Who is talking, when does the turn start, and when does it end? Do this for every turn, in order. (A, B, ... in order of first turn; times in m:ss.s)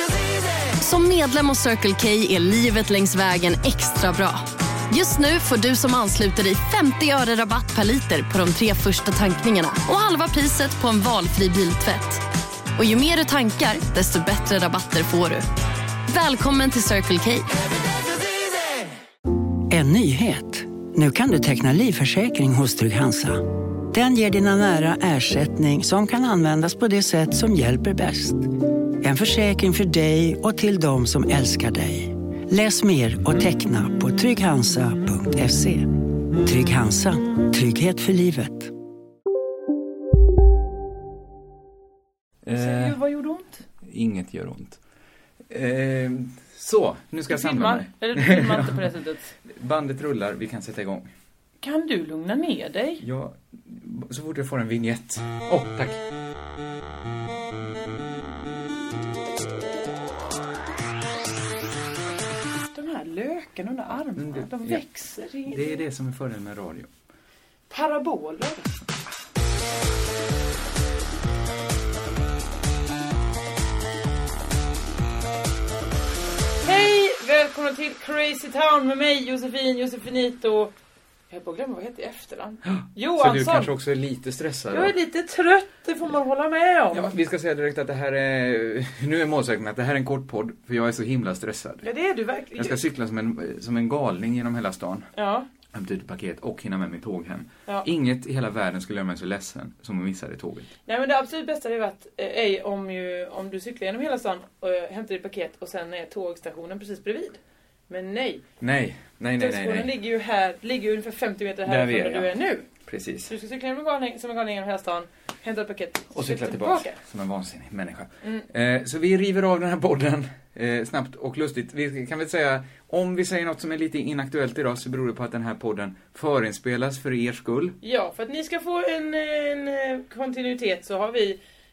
0:00.8-0:12.2 A
0:12.8-0:15.5 A
0:16.1-0:17.5 A
0:19.7-0:38.7 B
0:42.4-0:43.0 C
0:42.5-0:43.7 D
0:43.8-0:44.8 C
0:45.5-0:48.9 C
0:47.3-0:49.3 D
0:49.5-0:51.1 C
0:51.6-0:53.0 D
0:53.0-0:56.0 C
1:02.7-1:05.8 D
1:04.2-1:04.8 C
1:05.4-1:06.9 C
1:07.7-1:08.7 D
1:16.6-1:20.7 D
1:21.3-1:23.7 D
1:22.7-1:24.9 C
1:24.7-1:27.1 D
1:26.9-1:31.9 C
1:31.8-1:32.8 D
1:32.6-1:35.1 C
1:35.2-1:35.5 D
1:35.7-1:40.7 C
1:40.9-1:48.4 D
1:48.6-1:49.9 C
1:49.4-1:52.7 D
1:51.6-1:52.3 C
1:52.8-1:53.3 C
1:53.3-1:57.0 D
1:56.1-2:07.8 C
2:07.8-2:11.4 D